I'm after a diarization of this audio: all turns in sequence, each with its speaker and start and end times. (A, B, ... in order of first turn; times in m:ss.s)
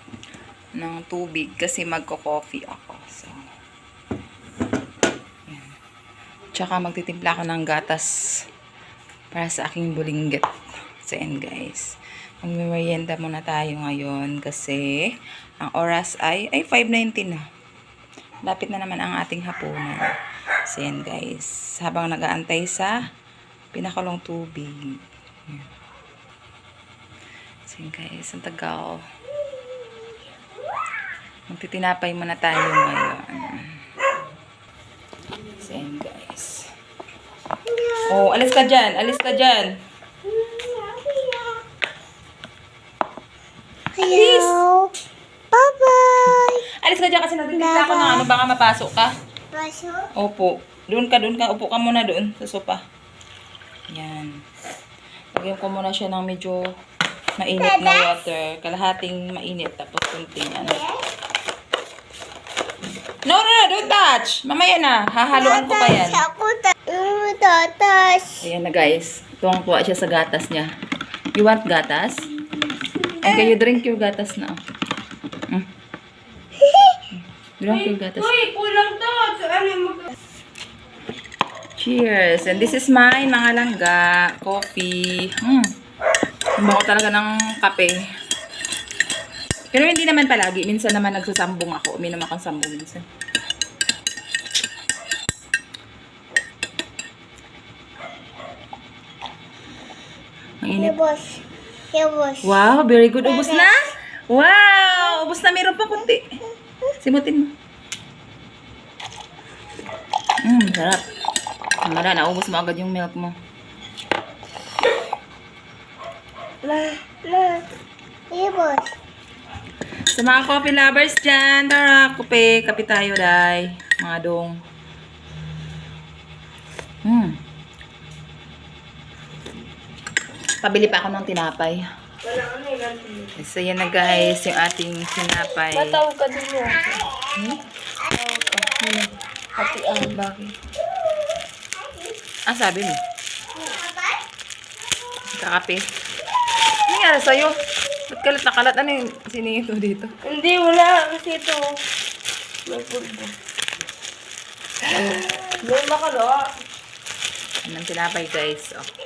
0:00.8-0:03.4 A
0:05.5-0:05.8 A
0:06.6-0:08.1 A
0:09.3-0:10.5 A
0:11.0-0:11.9 A
0:12.4-0:15.1 A
0:15.6-0:17.4 A
0:18.4-0:20.1 A
0:20.7-0:23.0 A
0:23.7-0:25.7 A
0:27.7-0:29.0 A
0:31.5-0:33.7 A
0:35.6-0:36.7 A
0:37.7-0:38.2 B
0:38.1-0:39.7 A
0:40.3-0:41.6 B
0:44.0-0:44.9 B
0:44.0-0:44.6 A
0:45.5-0:46.6 B
0:46.3-0:49.1 A
0:47.6-0:48.3 B
0:49.5-0:50.1 B
0:50.2-0:52.8 A
0:53.9-0:54.4 A
0:55.3-0:56.7 A
0:57.4-1:00.8 A
0:57.6-0:58.1 B
1:00.6-1:01.0 B
1:03.2-1:06.3 A
1:05.6-1:08.4 B
1:08.4-1:10.7 A
1:11.4-1:12.3 A
1:13.1-1:13.4 C
1:13.2-1:14.6 A
1:16.6-1:17.0 B
1:17.1-1:18.3 A
1:17.7-1:20.1 C
1:21.8-1:25.7 A
1:26.6-1:28.0 A
1:29.7-1:33.0 A
1:40.6-1:41.0 A
1:40.8-1:41.4 B
1:41.9-1:42.5 B
1:42.4-1:46.3 A
1:43.2-1:43.7 B
1:47.0-1:47.5 A
1:50.4-1:51.0 A
1:51.8-1:53.4 A
1:56.6-1:57.7 B
1:58.3-1:58.9 B
2:00.1-2:04.6 A
2:07.0-2:07.4 A
2:10.6-2:11.8 A
2:12.2-2:13.4 C
2:13.4-2:16.0 A
2:15.7-2:17.0 C
2:16.9-2:17.3 B
2:17.0-2:17.6 A
2:18.1-2:18.9 B
2:18.2-2:19.1 A
2:19.6-2:20.1 C
2:19.6-2:19.8 B
2:19.7-2:20.5 A
2:21.7-2:22.2 B
2:22.5-2:23.0 A
2:23.6-2:24.2 B
2:25.3-2:25.8 A
2:26.9-2:27.6 A
2:28.1-2:30.1 A
2:30.2-2:31.7 C
2:32.7-2:33.3 C
2:34.9-2:36.5 C
2:37.6-2:38.9 A